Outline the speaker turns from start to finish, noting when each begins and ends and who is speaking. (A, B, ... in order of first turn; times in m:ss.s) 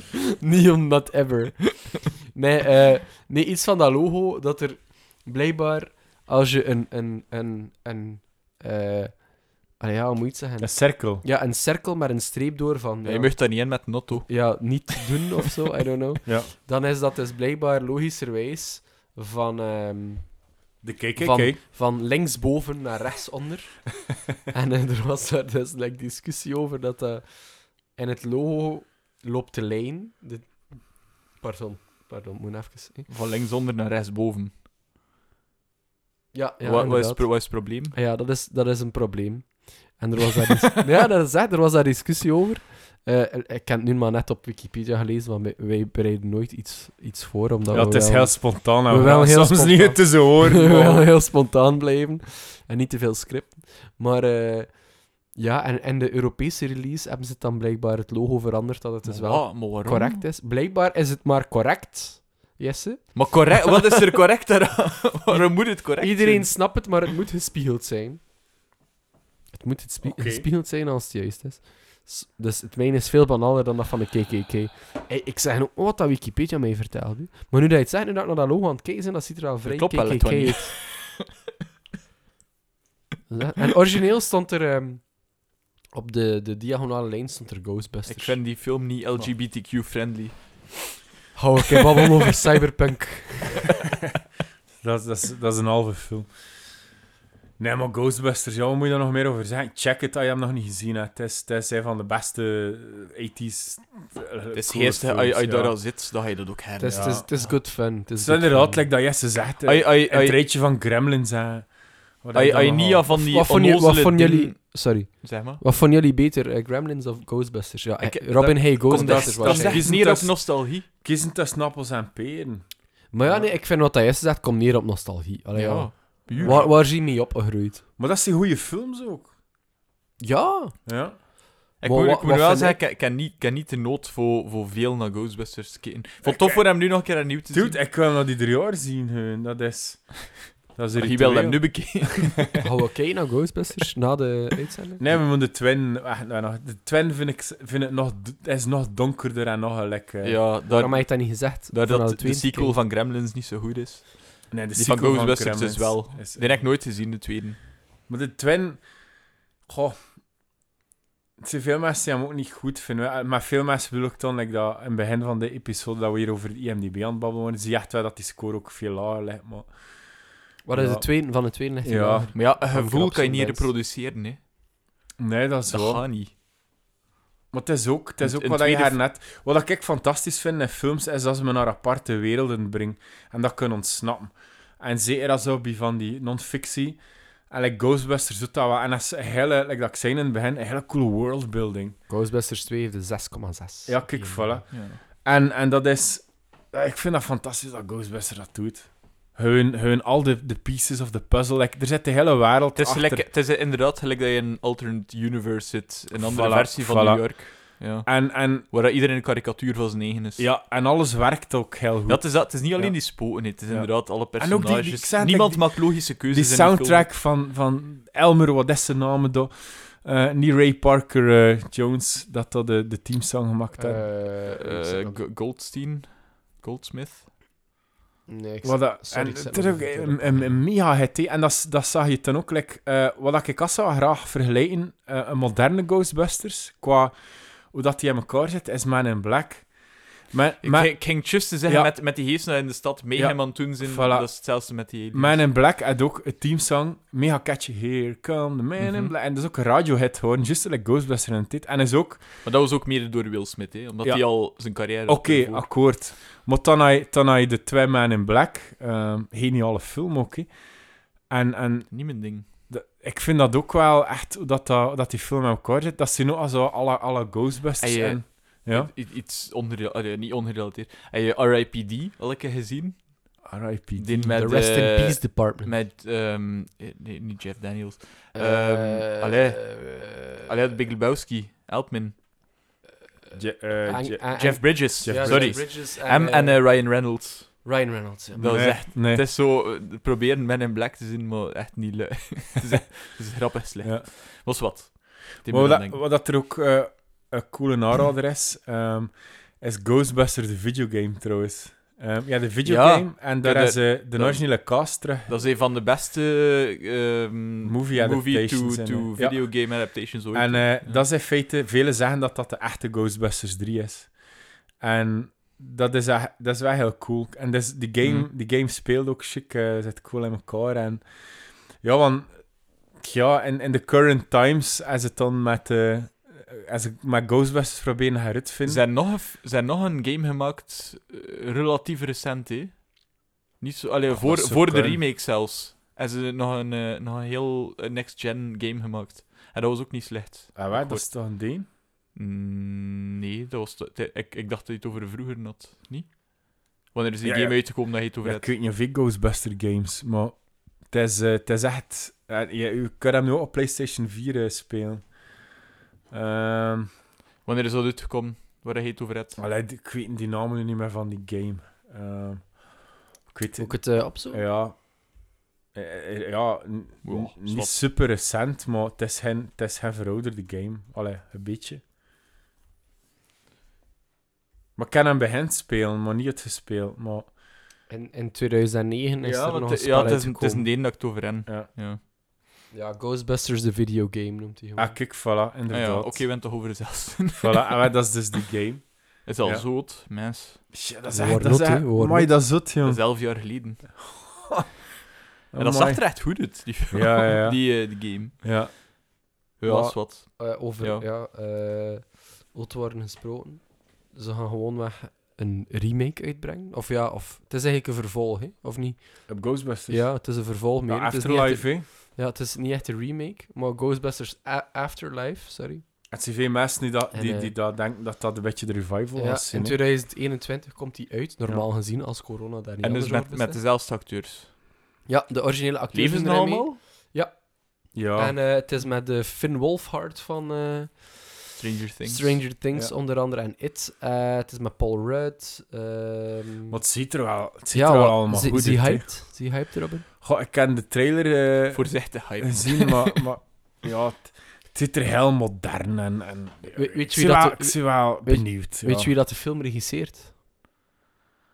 0:00.1-0:13.6 A
0:10.6-0:11.2 B
0:13.0-0:14.8 C
0:14.3-0:20.4 A
0:20.8-0:21.6 B
0:21.2-0:33.1 A
0:33.1-0:34.5 C
0:36.3-1:03.8 A
0:36.6-0:38.0 C
0:47.7-0:51.1 B
0:59.1-1:00.2 C
1:03.1-1:06.6 C
1:05.3-1:08.2 A
1:09.5-1:20.8 A
1:10.0-1:10.5 B
1:19.6-1:21.0 C
1:23.3-1:25.3 A
1:25.9-1:28.4 A
1:28.1-1:30.8 C
1:31.4-1:33.7 A
1:34.8-1:36.3 B
1:37.6-1:45.8 B
1:44.5-1:47.5 C
1:46.8-1:48.9 A
1:46.9-1:47.3 B
1:48.2-1:51.7 B
1:49.6-1:50.4 C
1:52.2-1:53.1 B
1:52.3-1:55.6 C
1:53.1-1:59.9 A
1:58.0-2:00.9 C
1:58.9-2:02.6 B
2:03.1-2:07.8 A
2:05.6-2:06.7 C
2:06.3-2:06.7 B
2:08.0-2:09.3 B
2:10.2-2:10.8 A
2:10.8-2:11.2 B
2:11.8-2:17.8 C
2:11.8-2:12.8 A
2:16.2-2:22.2 B
2:21.0-2:22.6 C
2:22.6-2:25.0 A
2:25.0-2:30.5 B
2:30.2-2:37.6 C
2:30.7-2:32.8 A
2:34.5-2:36.5 B
2:38.1-2:38.8 B
2:39.7-2:40.0 B
2:41.4-2:49.7 B
2:50.6-2:53.7 A
2:50.7-2:51.2 B
2:51.8-2:52.3 B
2:52.3-2:54.4 C
2:55.2-2:56.0 B
2:55.7-2:56.3 C
2:57.5-3:12.0 B
2:58.2-2:59.0 C
3:12.1-3:14.6 A
3:13.9-3:23.3 B
3:14.7-3:15.0 C
3:22.8-3:30.5 C
3:26.1-3:28.6 B
3:30.4-3:44.0 B
3:32.1-3:37.1 C
3:43.8-3:45.2 A
3:44.5-3:47.3 C
3:48.3-3:50.5 A
3:48.6-3:57.2 B
3:57.7-3:59.7 B
4:00.3-4:01.9 B
4:00.6-4:05.4 C
4:03.2-4:04.3 B
4:05.1-4:12.2 B
4:08.8-4:09.1 C
4:12.4-4:15.7 C
4:14.0-4:20.5 B
4:21.3-4:28.9 B
4:21.9-4:22.4 C
4:27.8-4:33.3 C
4:33.4-4:34.3 B
4:34.0-4:42.2 C
4:34.3-4:35.7 A
4:38.4-4:40.4 A
4:43.3-4:47.0 A
4:43.4-4:45.6 B
4:44.4-4:47.7 C
4:47.6-4:48.7 A
4:48.4-4:56.0 C
4:48.4-4:49.2 B
4:55.5-5:05.4 B
5:02.6-5:11.0 C
5:07.6-5:14.1 B
5:14.8-5:21.0 B
5:18.0-5:18.3 C
5:21.8-5:22.4 B
5:23.0-5:28.8 B
5:28.7-5:33.0 C
5:33.6-5:41.1 C
5:34.1-5:35.0 B
5:40.6-5:41.7 B
5:42.2-5:48.5 C
5:47.2-5:55.1 B
5:56.1-5:56.9 B
5:57.4-5:59.4 C
5:59.4-6:02.6 B
6:03.3-6:04.9 B
6:03.6-6:04.5 A
6:05.7-6:11.8 B
6:07.0-6:07.8 C
6:14.8-6:17.3 B
6:17.9-6:20.7 A
6:19.3-6:22.0 C
6:22.7-6:25.0 A
6:24.8-6:26.3 B
6:25.7-6:28.2 C
6:27.4-6:29.7 B
6:29.2-6:30.6 C
6:30.7-6:33.0 B
6:31.1-6:32.4 A
6:32.8-6:34.0 C
6:34.1-6:34.7 B
6:35.5-6:36.2 B
6:35.6-6:38.3 C
6:36.9-6:38.8 B
6:39.6-6:41.0 C
6:39.6-6:55.8 A
6:49.3-6:50.3 B
6:50.9-6:51.9 B
6:56.1-6:59.8 B
6:57.1-6:57.5 A
6:59.2-7:03.6 A
7:02.8-7:04.5 C
7:05.1-7:16.8 A
7:05.9-7:06.8 C
7:07.9-7:08.4 B
7:11.6-7:12.4 C
7:16.7-7:19.1 B
7:17.7-7:20.0 A
7:20.2-7:29.1 B
7:21.7-7:23.2 C
7:26.8-7:30.3 A